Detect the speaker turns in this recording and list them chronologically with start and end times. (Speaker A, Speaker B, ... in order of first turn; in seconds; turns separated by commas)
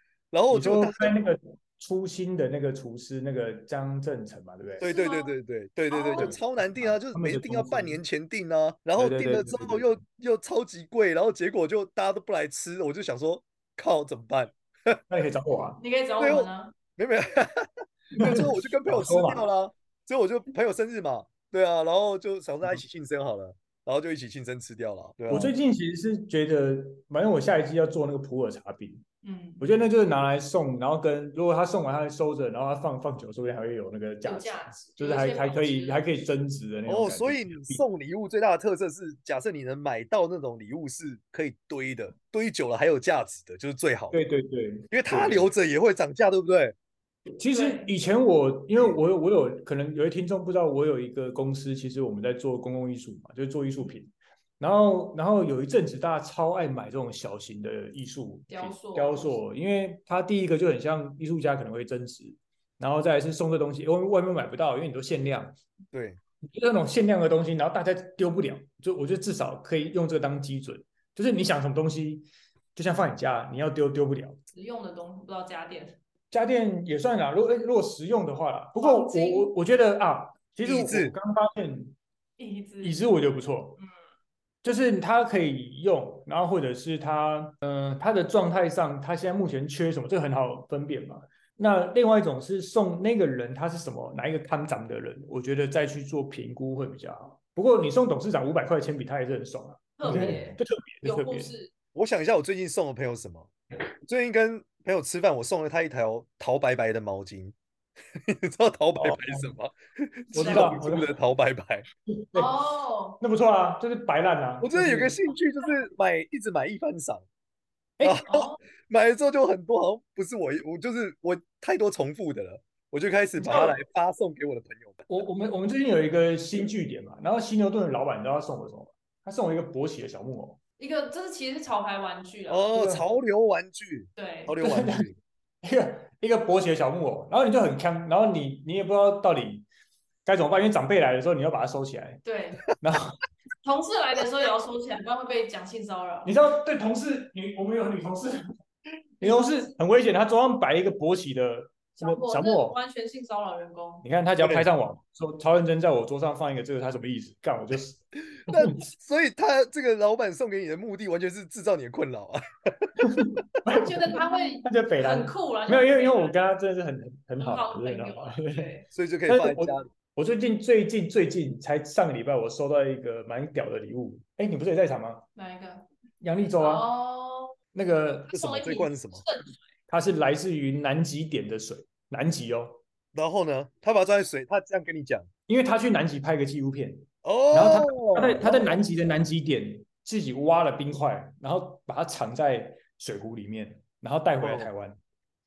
Speaker A: 0.3-1.2, Speaker B: 0.5-4.8, Speaker A: 4.8-15.0, Speaker C: 4.8-5.3, Speaker C: 5.9-6.3, Speaker B: 6.2-8.0, Speaker B: 8.9-9.9, Speaker B: 15.1-15.8, Speaker C: 15.8-16.7, Speaker A: 16.2-25.5, Speaker B: 18.2-19.5, Speaker B: 25.3-29.0, Speaker C: 29.2-29.6, Speaker B: 29.6-37.8, Speaker C: 34.2-36.1, Speaker A: 36.9-44.2, Speaker B: 44.1-45.5, Speaker A: 44.9-46.7, Speaker B: 47.4-65.6, Speaker C: 47.5-47.9, Speaker C: 58.5-59.4, Speaker A: 65.9-66.2, Speaker B: 66.4-74.4, Speaker C: 74.5-76.0, Speaker B: 76.3-82.0, Speaker C: 78.8-79.5, Speaker A: 80.6-81.1, Speaker C: 82.4-83.1, Speaker B: 82.8-83.8, Speaker B: 84.6-101.5, Speaker C: 100.0-101.7, Speaker A: 100.0-100.4, Speaker A: 101.9-103.5, Speaker A: 104.0-107.5, Speaker A: 108.3-111.8, Speaker B: 109.0-109.5, Speaker B: 110.3-111.1, Speaker B: 112.1-112.5, Speaker C: 112.3-113.2, Speaker B: 113.2-115.2, Speaker A: 114.6-117.2, Speaker B: 118.0-118.2, Speaker A: 118.0-125.1, Speaker C: 118.3-118.6, Speaker B: 123.4-123.8, Speaker B: 125.1-130.6, Speaker C: 130.8-132.7, Speaker A: 132.5-135.2, Speaker B: 132.7-133.0, Speaker C: 134.2-134.6, Speaker B: 134.6-135.1, Speaker B: 135.6-139.7, Speaker B: 140.2-142.2, Speaker C: 142.2-142.7, Speaker B: 142.8-143.2, Speaker C: 143.6-146.3, Speaker B: 146.2-148.4, Speaker B: 149.2-152.8, Speaker C: 149.2-149.7, Speaker C: 152.0-154.1, Speaker B: 154.0-158.8, Speaker A: 154.4-154.7, Speaker A: 158.4-162.9, Speaker B: 163.0-168.7, Speaker C: 163.7-166.4, Speaker C: 167.4-168.9, Speaker A: 168.9-169.9, Speaker B: 169.3-175.2, Speaker C: 175.3-175.9, Speaker B: 176.2-176.9, Speaker C: 176.6-177.6, Speaker B: 177.7-178.4, Speaker C: 178.3-179.6, Speaker A: 178.3-179.2, Speaker B: 179.9-182.8, Speaker A: 183.1-185.3, Speaker B: 185.5-195.0, Speaker A: 187.2-188.8, Speaker A: 194.4-194.7